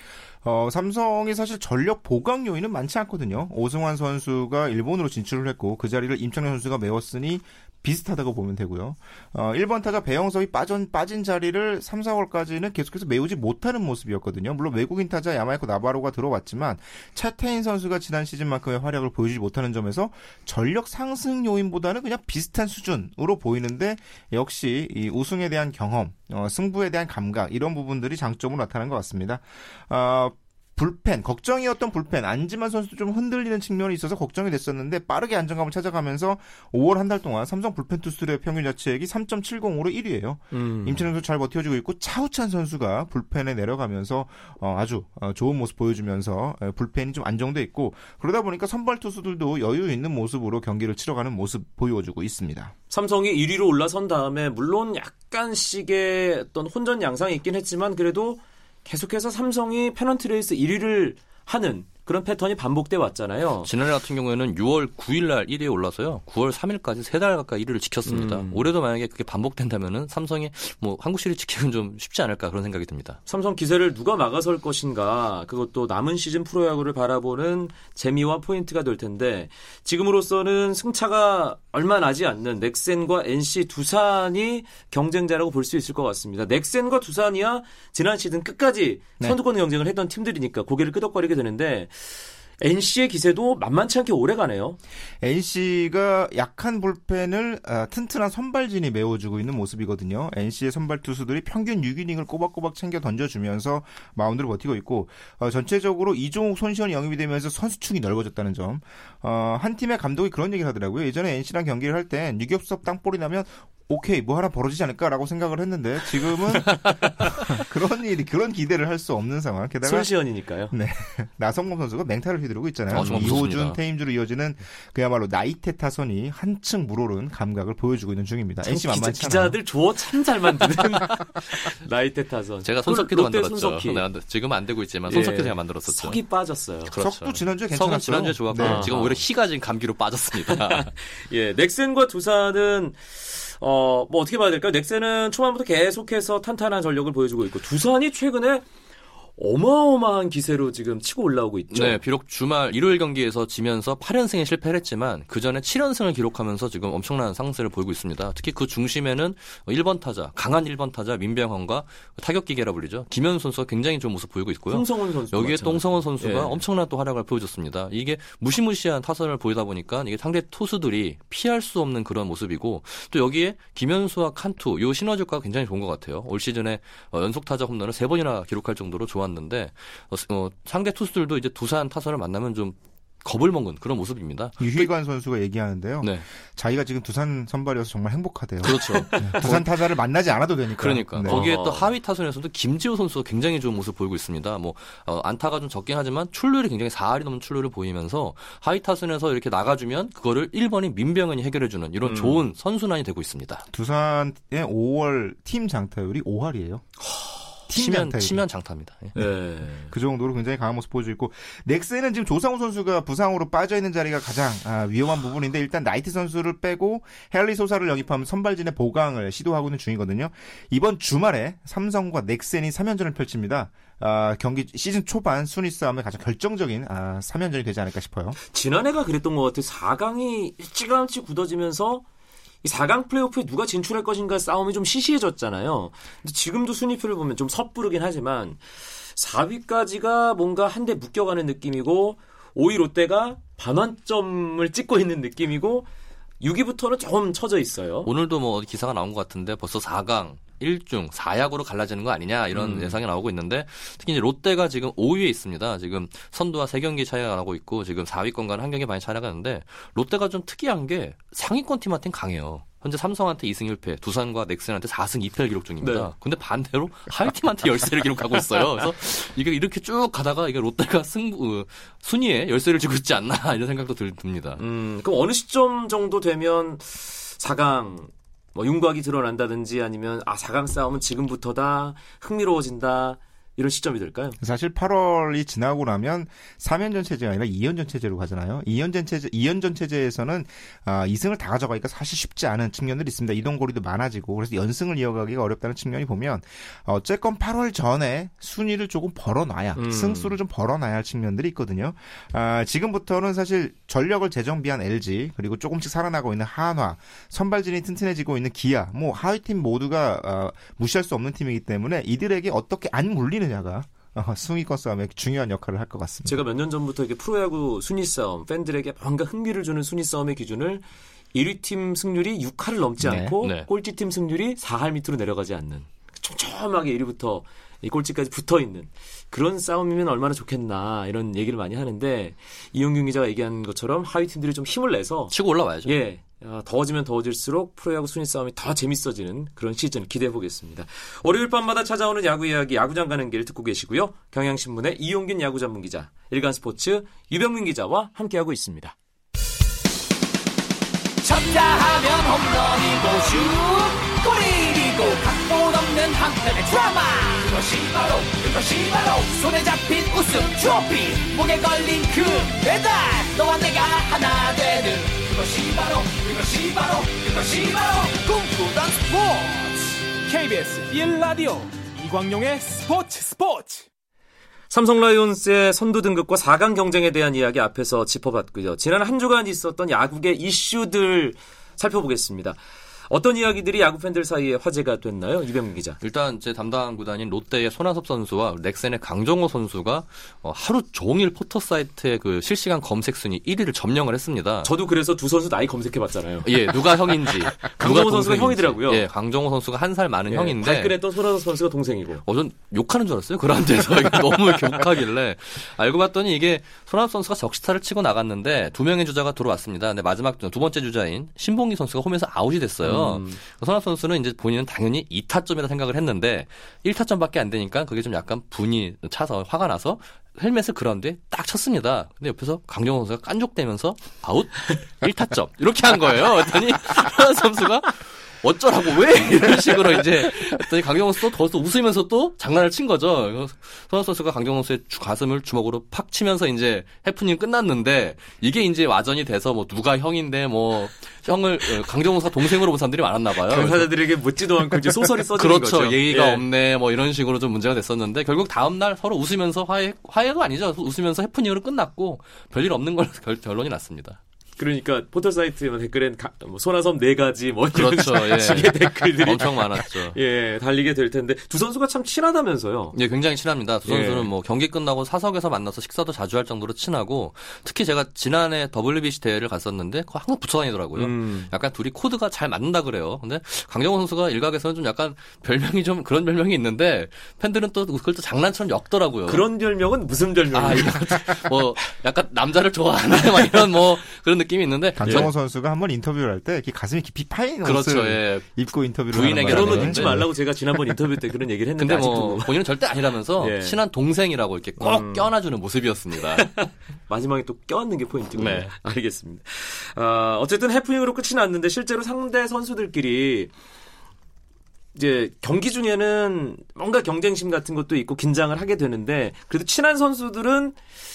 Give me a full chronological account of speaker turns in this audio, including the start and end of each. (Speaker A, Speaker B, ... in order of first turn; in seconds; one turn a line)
Speaker A: 0.4-52.7
Speaker B: 40.5-41.1
Speaker B: 52.9-63.7
Speaker C: 63.6-73.2
Speaker B: 68.1-68.7
Speaker B: 73.3-92.0
Speaker B: 92.6-94.8
Speaker A: 95.2-120.1
Speaker B: 119.8-120.7
Speaker A: 120.7-129.6
Speaker C: 122.9-123.8
Speaker B: 123.0-123.3
Speaker B: 128.7-134.0
Speaker C: 132.7-136.2
Speaker B: 135.1-136.9
Speaker C: 136.9-140.9
Speaker A: 137.0-138.9
Speaker B: 138.6-139.2
Speaker B: 140.5-148.7
Speaker B: 149.4-152.0
Speaker C: 151.7-184.9
Speaker B: 164.7-166.6
Speaker A: 184.6-191.4
Speaker C: 188.6-189.7
Speaker B: 188.9-189.4
Speaker C: 190.8-203.7
Speaker B: 191.2-191.9
Speaker B: 202.0-202.4
Speaker A: 203.7-206.9
Speaker B: 207.1-207.4
Speaker A: 207.7-208.4
Speaker C: 207.7-209.3
Speaker B: 209.2-209.9
Speaker A: 209.9-228.4
Speaker B: 228.5-232.0
Speaker B: 232.6-238.6
Speaker B: 239.1-245.9
Speaker B: 246.4-248.1
Speaker C: 248.0-274.6
Speaker B: 252.5-253.0
Speaker B: 265.8-266.1
Speaker B: 274.6-284.4
Speaker A: 284.4-316.4
Speaker B: 299.8-300.4
Speaker B: 316.3-335.3
Speaker A: 323.0-323.3
Speaker C: 323.4-323.7
Speaker C: 335.3-335.9
Speaker B: 335.9-349.0
Speaker D: 351.2-371.1
Speaker E: 370.3-373.8
Speaker D: 372.2-373.7
Speaker B: 374.7-386.0
Speaker C: 386.0-394.7
Speaker B: 394.6-399.0
Speaker C: 396.4-401.0
Speaker B: 400.3-402.2
Speaker C: 402.2-443.9
Speaker B: 412.8-413.4
Speaker B: 443.5-446.4
Speaker C: 445.4-454.2
Speaker B: 454.6-463.0
Speaker C: 457.7-460.1
Speaker C: 462.9-479.5
Speaker B: 463.9-464.3
Speaker B: 471.0-471.5
Speaker B: 479.3-481.2
Speaker C: 480.5-485.3
Speaker A: 485.0-490.2
Speaker B: 485.1-485.3
Speaker C: 487.6-488.5
Speaker C: 489.1-491.0
Speaker B: 489.5-492.5
Speaker C: 491.8-496.5
Speaker B: 493.4-493.8
Speaker B: 494.8-495.3
Speaker B: 496.3-503.5
Speaker C: 498.3-498.7
Speaker B: 504.9-510.8